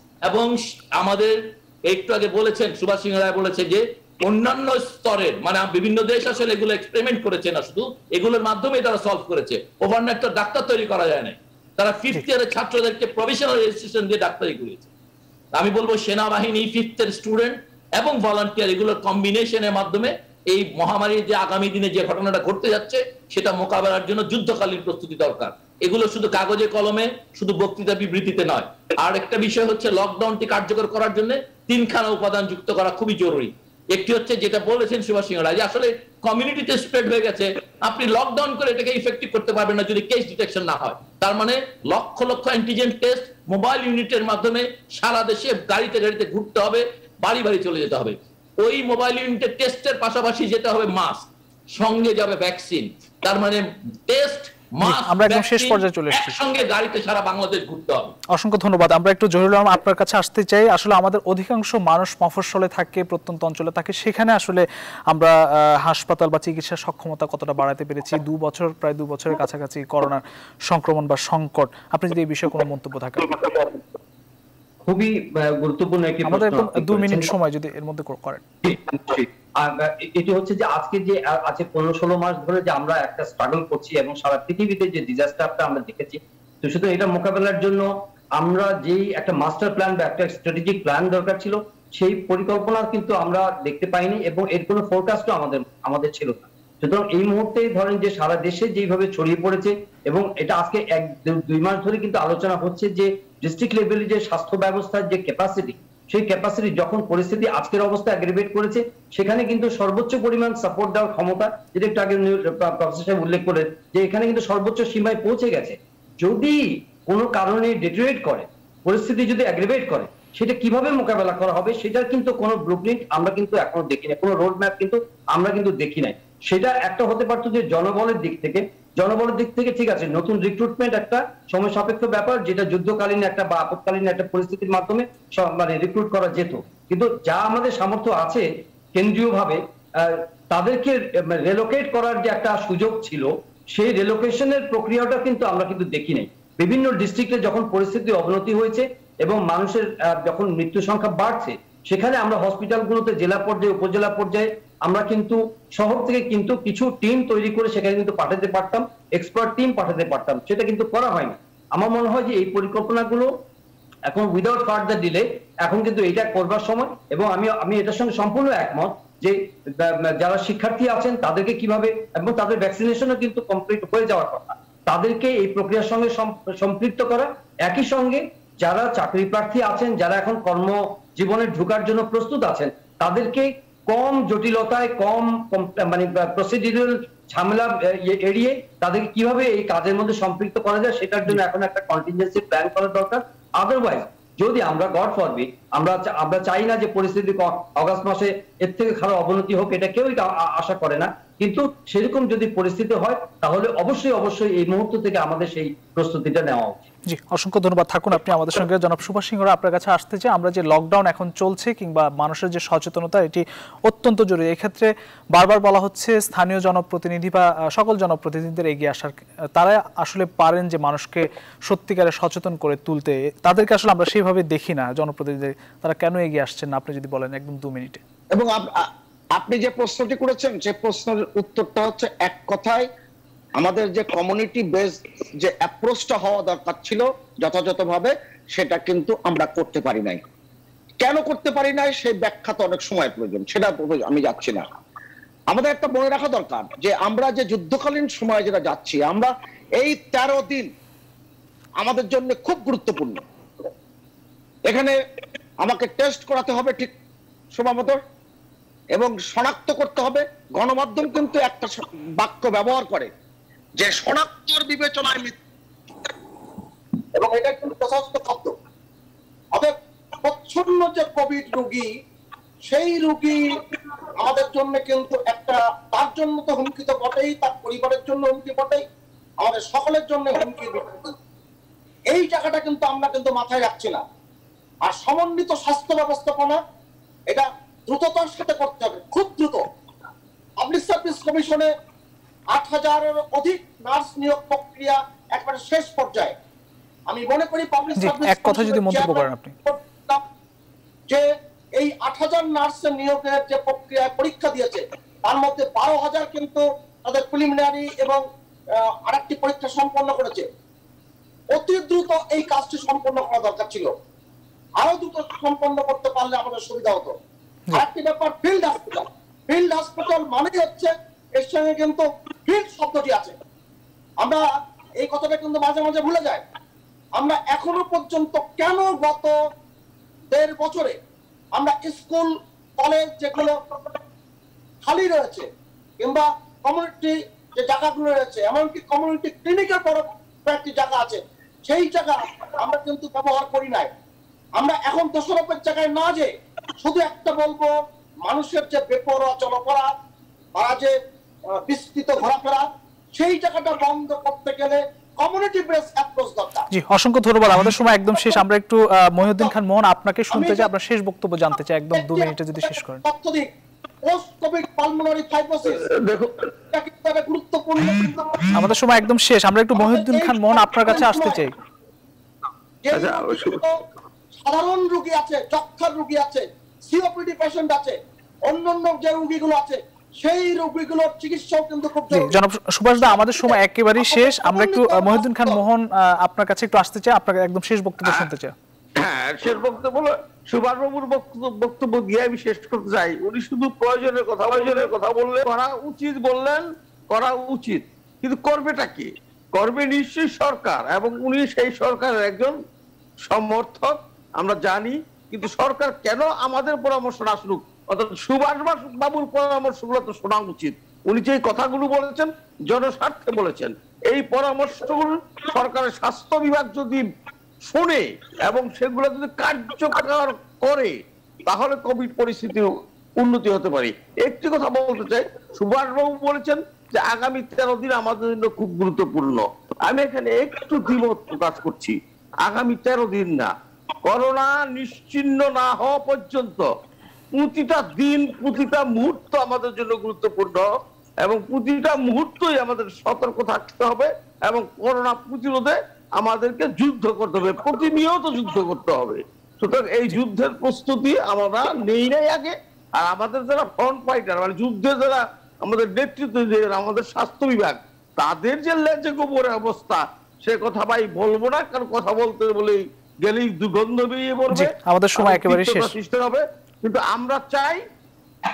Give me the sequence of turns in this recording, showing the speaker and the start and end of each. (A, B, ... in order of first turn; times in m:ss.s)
0:00.2-0:14.9 A
0:15.5-0:58.1 A
0:54.8-0:56.4 B
0:58.3-1:13.4 B
1:14.8-1:17.3 C
1:16.2-1:18.4 B
1:18.6-2:43.3 C
2:44.1-3:26.8 C
3:27.1-3:48.0 B
3:48.3-3:52.9 D
3:53.6-4:00.2 D
4:01.0-4:04.6 D
4:05.5-4:10.7 D
4:11.8-4:13.2 D
4:14.7-4:14.9 D
4:15.6-4:16.9 D
4:17.5-4:18.0 D
4:18.9-4:23.1 D
4:23.8-4:25.4 D
4:27.2-4:28.5 D
4:29.5-4:31.9 D
4:32.7-4:33.6 D
4:34.2-4:38.8 D
4:39.4-4:41.1 D
4:42.1-4:44.0 D
4:44.8-4:46.6 D
4:47.3-4:49.7 D
4:50.6-4:51.7 D
4:52.5-4:56.4 D
4:57.1-5:00.2 D
4:58.0-4:59.6 B
5:01.8-5:08.2 D
5:08.8-5:10.5 D
5:11.5-5:13.9 D
5:14.8-5:17.1 D
5:17.7-5:23.4 D
5:24.2-5:24.4 D
5:25.0-5:26.4 D
5:27.2-5:29.3 D
5:30.3-5:31.0 D
5:31.5-5:34.0 D
5:34.8-5:35.5 D
5:36.0-5:43.9 D
5:44.6-5:47.7 D
5:48.2-5:49.9 D
5:50.5-5:50.9 D
5:51.5-5:56.7 D
5:56.7-6:03.0 B
6:00.3-6:00.7 D
6:01.9-6:03.5 D
6:04.0-6:05.8 D
6:05.8-6:06.4 E
6:06.7-6:08.5 D
6:08.5-6:11.5 B
6:09.8-6:11.4 D
6:12.8-6:13.7 D
6:12.9-6:13.6 E
6:14.4-6:22.3 D
6:22.1-6:28.5 B
6:23.1-6:25.6 D
6:29.0-6:42.6 E
6:43.2-6:57.0 E
6:57.6-7:13.5 E
7:14.0-7:16.6 E
7:17.3-7:20.7 E
7:21.2-7:47.8 E
7:44.5-7:45.9 B